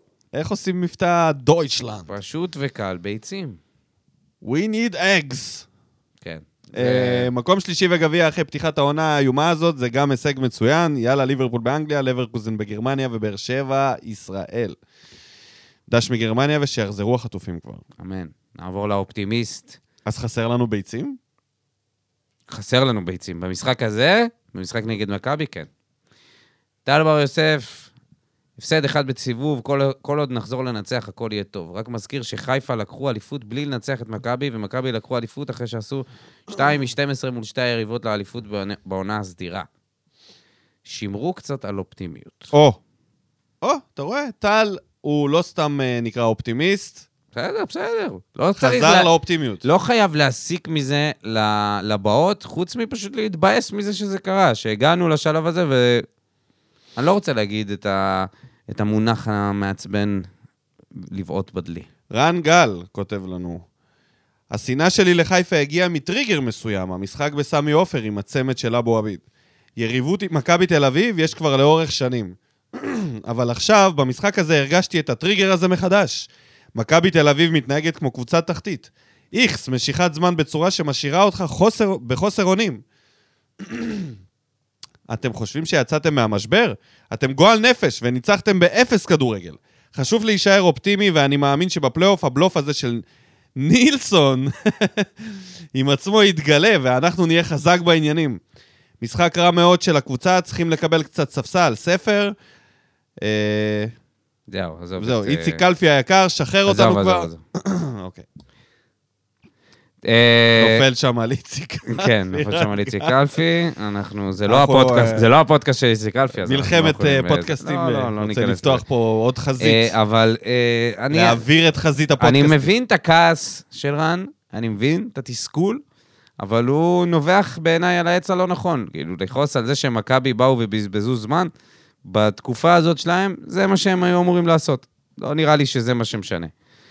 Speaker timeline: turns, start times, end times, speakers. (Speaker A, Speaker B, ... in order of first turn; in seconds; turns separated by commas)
Speaker A: 0.3-2.1, Speaker B: 2.1-3.6, Speaker A: 4.4-5.7, Speaker B: 6.2-7.3, Speaker A: 6.8-14.8, Speaker A: 15.9-17.8, Speaker B: 18.0-19.8, Speaker A: 20.0-21.2, Speaker B: 22.5-25.7, Speaker B: 26.8-27.9, Speaker B: 28.6-39.7, Speaker B: 40.8-42.5, Speaker A: 42.5-42.8, Speaker A: 43.6-47.0, Speaker B: 47.3-49.1, Speaker A: 48.6-49.6, Speaker B: 49.6-56.1, Speaker B: 57.0-60.3, Speaker B: 60.9-61.9, Speaker A: 62.1-63.6, Speaker A: 64.5-69.2, Speaker A: 69.8-82.8, Speaker A: 83.6-84.1, Speaker A: 85.1-93.0, Speaker A: 93.6-95.1, Speaker A: 95.7-98.4, Speaker A: 99.0-102.3, Speaker A: 103.2-103.9, Speaker B: 104.5-105.6, Speaker A: 105.0-108.2, Speaker B: 106.7-107.4, Speaker B: 110.0-110.8, Speaker A: 110.5-113.1, Speaker B: 111.9-118.8, Speaker A: 114.5-115.3, Speaker A: 116.4-119.9, Speaker B: 119.6-121.4, Speaker A: 121.1-122.7, Speaker B: 122.2-125.8, Speaker B: 126.4-131.5, Speaker B: 132.0-136.5